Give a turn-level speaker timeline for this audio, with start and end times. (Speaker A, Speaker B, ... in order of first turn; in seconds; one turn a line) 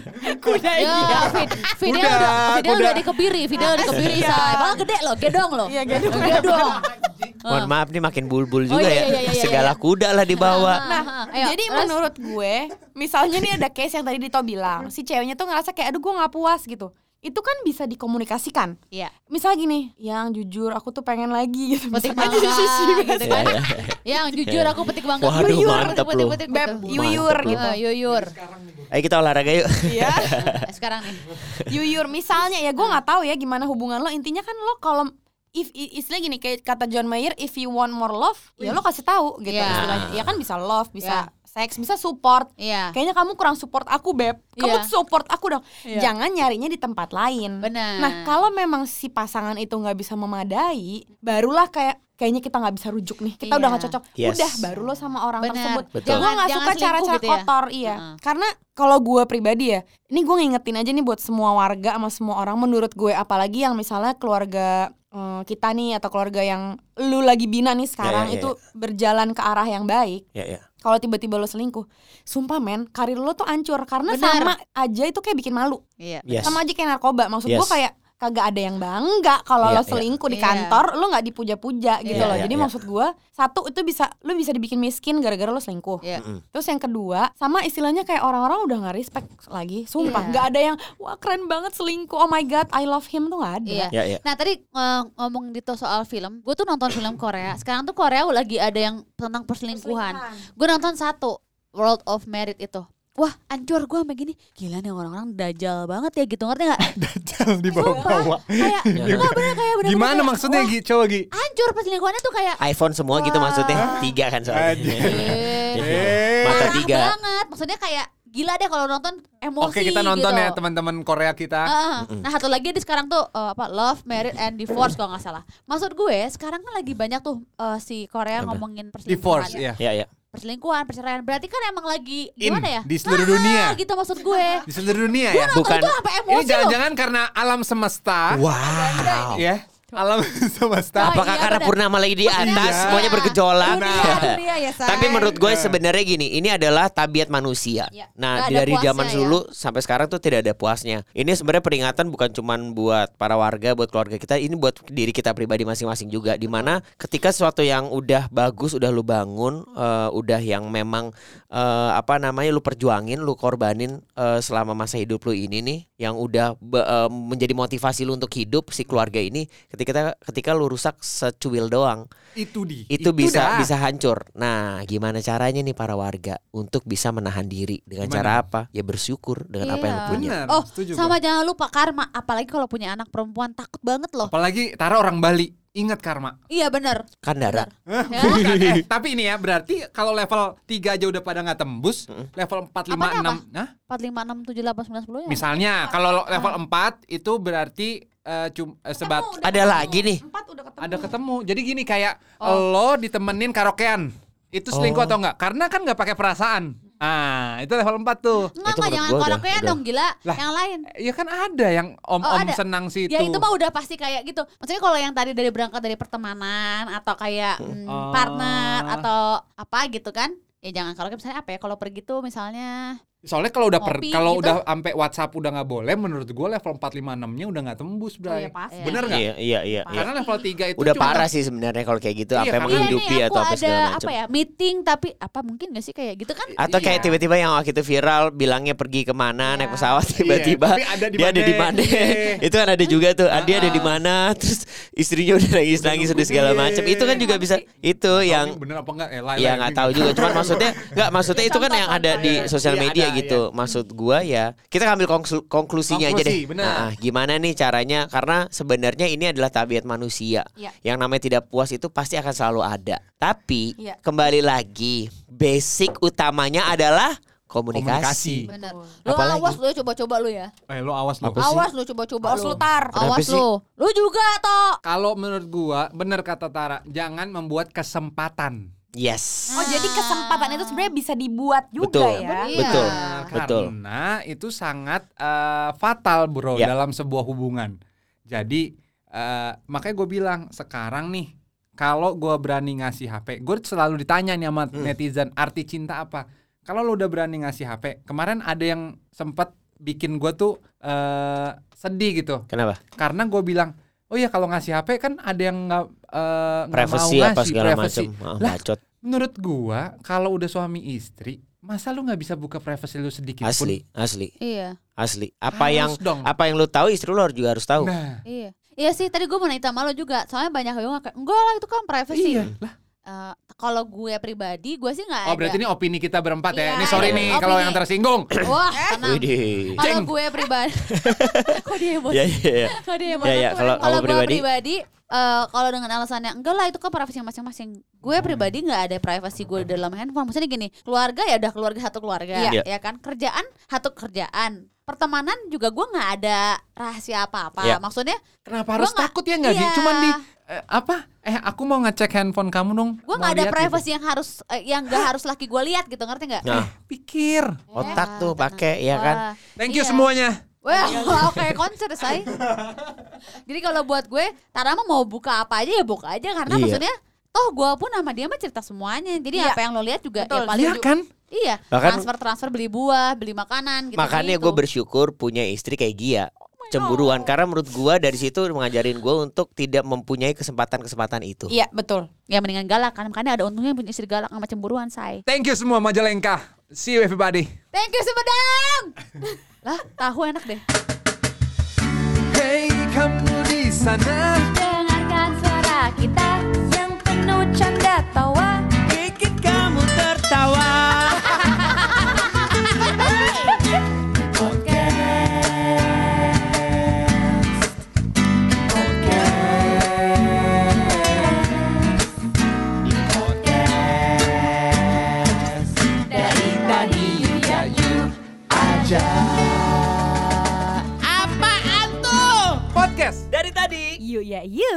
Speaker A: 0.1-3.1
Speaker B: 0.2-1.4
Speaker C: 0.8-6.8
Speaker B: 3.6-4.8
Speaker A: 4.2-4.5
Speaker B: 5.7-6.8
Speaker A: 5.9-7.3
Speaker C: 7.5-7.7
Speaker D: 7.5-10.8
Speaker C: 8.7-9.8
Speaker C: 10.3-12.0
Speaker B: 10.5-18.8
Speaker B: 19.3-23.6
Speaker C: 21.9-28.3
Speaker D: 23.2-24.0
Speaker D: 24.5-26.4
Speaker B: 25.3-27.8
Speaker D: 26.9-27.6
Speaker A: 28.1-28.9
Speaker D: 28.9-30.5
Speaker B: 29.8-30.4
Speaker C: 30.4-31.3
Speaker D: 31.4-31.6
Speaker B: 31.6-70.2
Speaker C: 39.5-40.0
Speaker D: 39.7-40.2
Speaker C: 42.6-43.0
Speaker C: 44.6-44.9
Speaker C: 45.9-46.1
Speaker C: 47.6-48.3
Speaker C: 53.4-54.0
Speaker D: 54.2-54.6
Speaker C: 55.4-58.1
Speaker D: 56.0-56.3
Speaker D: 68.0-68.5
Speaker D: 70.3-70.6
Speaker B: 70.8-75.8
Speaker C: 74.1-74.5
Speaker C: 76.0-76.5
Speaker D: 76.3-76.6
Speaker B: 76.4-93.9
Speaker D: 77.5-77.8
Speaker D: 79.6-80.1
Speaker C: 80.3-80.8
Speaker C: 82.0-82.5
Speaker D: 82.1-82.8
Speaker C: 90.0-90.5
Speaker C: 93.7-106.9
Speaker D: 93.9-94.2
Speaker B: 99.7-100.4
Speaker A: 106.9-111.3
Speaker C: 107.7-110.7
Speaker D: 107.9-108.1
Speaker D: 109.0-109.3
Speaker C: 111.3-112.6
Speaker D: 112.6-117.2
Speaker C: 113.1-114.1
Speaker A: 113.7-116.8
Speaker C: 115.0-115.8
Speaker C: 116.4-120.5
Speaker A: 119.6-121.7
Speaker C: 121.7-129.6
Speaker D: 122.0-122.3
Speaker A: 129.1-129.8
Speaker D: 129.8-130.1
Speaker C: 130.3-134.7
Speaker A: 132.4-133.8
Speaker B: 134.3-134.6
Speaker A: 134.7-135.6
Speaker C: 135.3-136.8
Speaker D: 135.5-135.9
Speaker A: 136.3-141.2
Speaker D: 138.4-139.4
Speaker B: 138.6-139.3
Speaker C: 138.7-139.3
Speaker C: 141.0-145.4
Speaker D: 141.0-172.0
Speaker A: 142.3-144.3
Speaker A: 144.9-145.8
Speaker C: 148.3-149.4
Speaker A: 172.4-173.7
Speaker D: 172.9-180.4
Speaker A: 178.0-178.4
Speaker C: 179.6-184.3
Speaker A: 180.1-181.2
Speaker A: 184.3-186.4
Speaker C: 186.5-188.4
Speaker D: 187.2-187.7
Speaker A: 187.9-193.7
Speaker D: 188.2-188.8
Speaker C: 192.9-195.5
Speaker A: 195.3-199.9
Speaker B: 195.8-196.2
Speaker C: 196.3-196.6
Speaker B: 199.0-201.2
Speaker D: 199.4-200.2
Speaker A: 200.8-208.5
Speaker D: 204.7-205.2
Speaker C: 208.5-210.9
Speaker D: 208.7-209.8
Speaker A: 211.0-213.5
Speaker C: 212.2-212.6
Speaker C: 213.1-223.0
Speaker A: 217.9-219.1
Speaker A: 223.2-229.3
Speaker C: 223.8-224.6
Speaker B: 228.3-229.2
Speaker C: 228.7-229.1
Speaker D: 229.1-230.1
Speaker B: 229.9-230.2
Speaker A: 229.9-231.3
Speaker D: 230.8-234.2
Speaker C: 231.0-231.2
Speaker A: 232.4-233.1
Speaker C: 232.7-237.1
Speaker A: 236.5-237.2
Speaker D: 236.6-248.6
Speaker C: 239.6-239.9
Speaker A: 240.1-242.4
Speaker A: 243.3-244.0
Speaker C: 243.6-243.8
Speaker A: 245.8-247.3
Speaker A: 248.1-251.0
Speaker D: 249.4-268.5
Speaker C: 251.3-252.6
Speaker A: 252.1-253.4
Speaker A: 255.9-256.9
Speaker A: 267.7-268.5
Speaker C: 268.5-270.5
Speaker B: 268.5-268.9
Speaker D: 269.1-269.6
Speaker A: 270.7-271.4
Speaker D: 271.2-271.5
Speaker C: 271.4-274.8
Speaker B: 272.2-273.0
Speaker D: 272.9-273.4
Speaker A: 274.8-278.6
Speaker D: 279.0-279.6
Speaker C: 279.5-280.9
Speaker B: 279.6-282.5
Speaker D: 281.8-283.7
Speaker C: 282.2-283.3
Speaker A: 282.6-287.7
Speaker A: 288.3-313.8
Speaker D: 302.5-302.8
Speaker D: 306.7-308.8
Speaker D: 313.4-314.3
Speaker C: 314.4-314.8
Speaker D: 315.0-317.9
Speaker A: 315.5-316.3
Speaker A: 317.8-318.2
Speaker C: 318.3-322.5
Speaker A: 322.1-322.7
Speaker C: 323.1-325.6
Speaker A: 325.3-328.3
Speaker C: 326.5-327.8
Speaker D: 326.9-327.4
Speaker C: 328.4-348.2
Speaker D: 329.0-329.8
Speaker A: 329.8-330.1
Speaker D: 330.9-334.4
Speaker B: 333.1-333.8
Speaker A: 338.1-338.5
Speaker A: 348.5-353.8
Speaker C: 348.8-350.1
Speaker C: 353.1-356.5
Speaker D: 356.4-356.7
Speaker A: 356.5-357.6
Speaker D: 357.7-359.2
Speaker C: 357.8-360.1
Speaker A: 359.6-361.6
Speaker C: 360.6-362.3
Speaker C: 363.3-374.6
Speaker D: 366.5-366.8
Speaker B: 369.3-369.6
Speaker B: 370.2-370.8
Speaker A: 370.5-371.1
Speaker D: 371.7-372.1
Speaker D: 374.0-381.5
Speaker B: 376.6-377.3
Speaker B: 381.5-382.1
Speaker C: 382.3-385.2
Speaker A: 385.3-387.5
Speaker C: 387.7-390.6
Speaker A: 392.3-394.5
Speaker C: 394.6-395.1
Speaker B: 395.2-395.5
Speaker B: 396.1-398.7
Speaker D: 398.8-401.3
Speaker C: 401.8-402.1
Speaker A: 416.2-419.4
Speaker A: 421.0-423.3
Speaker D: 423.3-424.0
Speaker B: 424.0-424.5